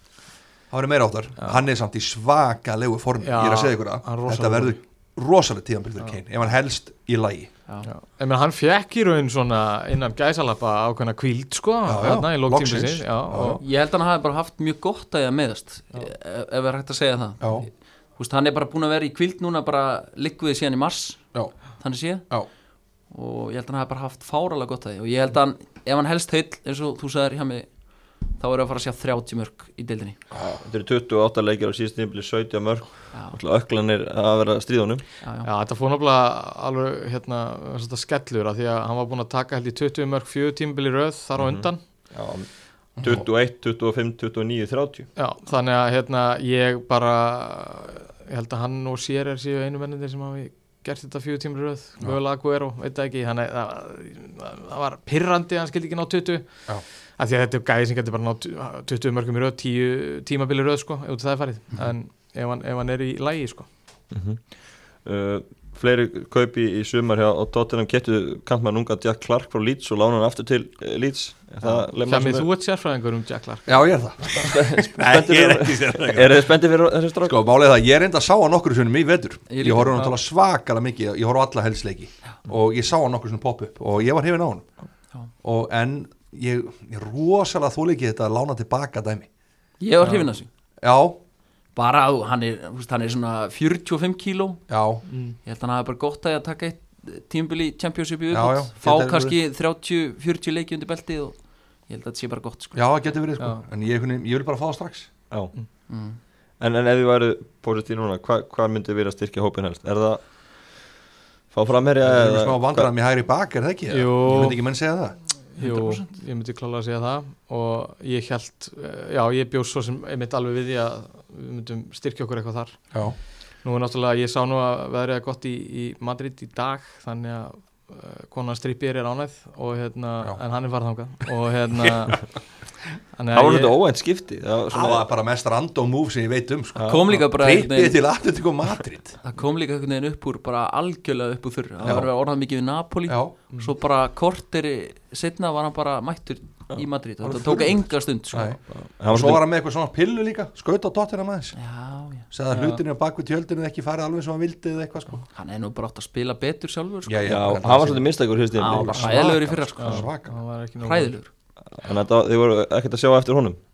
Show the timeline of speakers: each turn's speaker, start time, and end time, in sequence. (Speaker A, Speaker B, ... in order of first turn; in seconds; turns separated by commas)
Speaker A: 0.7-7.5, Speaker B: 3.2-4.8, Speaker B: 7.8-13.6, Speaker A: 11.8-13.6, Speaker C: 13.6-21.2, Speaker A: 17.4-17.7, Speaker C: 21.8-22.3, Speaker C: 23.1-27.7, Speaker C: 28.3-30.2, Speaker D: 30.4-35.0, Speaker C: 33.1-33.4, Speaker C: 35.2-35.5, Speaker B: 35.4-41.8, Speaker D: 41.4-45.1, Speaker A: 43.0-43.2, Speaker B: 45.1-56.5, Speaker B: 57.2-63.7, Speaker D: 64.1-64.5, Speaker D: 65.0-72.5, Speaker B: 72.0-73.8, Speaker A: 73.7-76.5, Speaker D: 74.4-77.3, Speaker A: 77.2-84.7, Speaker C: 79.5-80.1, Speaker A: 85.4-89.3, Speaker C: 89.8-90.5, Speaker B: 90.0-90.3, Speaker A: 90.8-91.2, Speaker C: 91.7-94.7, Speaker A: 94.7-95.0, Speaker B: 95.1-95.4, Speaker C: 95.4-101.3, Speaker A: 98.3-99.4, Speaker C: 101.9-102.8, Speaker A: 102.7-105.1, Speaker C: 105.9-106.2, Speaker D: 106.6-110.2, Speaker D: 111.5-112.9, Speaker A: 112.0-115.2, Speaker B: 113.9-114.6, Speaker B: 115.5-122.8, Speaker C: 115.6-116.1, Speaker B: 123.6-132.3, Speaker B: 133.2-133.7, Speaker D: 133.3-135.1, Speaker A: 134.7-139.2, Speaker D: 136.8-137.1, Speaker C: 136.8-138.0, Speaker C: 139.2-148.5, Speaker A: 141.8-142.1, Speaker A: 143.1-143.3, Speaker A: 147.2-151.6, Speaker D: 148.7-149.4, Speaker C: 151.5-152.3, Speaker A: 152.3-155.2, Speaker B: 152.5-152.8, Speaker C: 155.3-157.3, Speaker A: 157.1-160.3, Speaker D: 157.2-159.4, Speaker C: 158.6-160.1, Speaker B: 159.8-161.1, Speaker C: 160.8-161.3, Speaker D: 161.7-163.6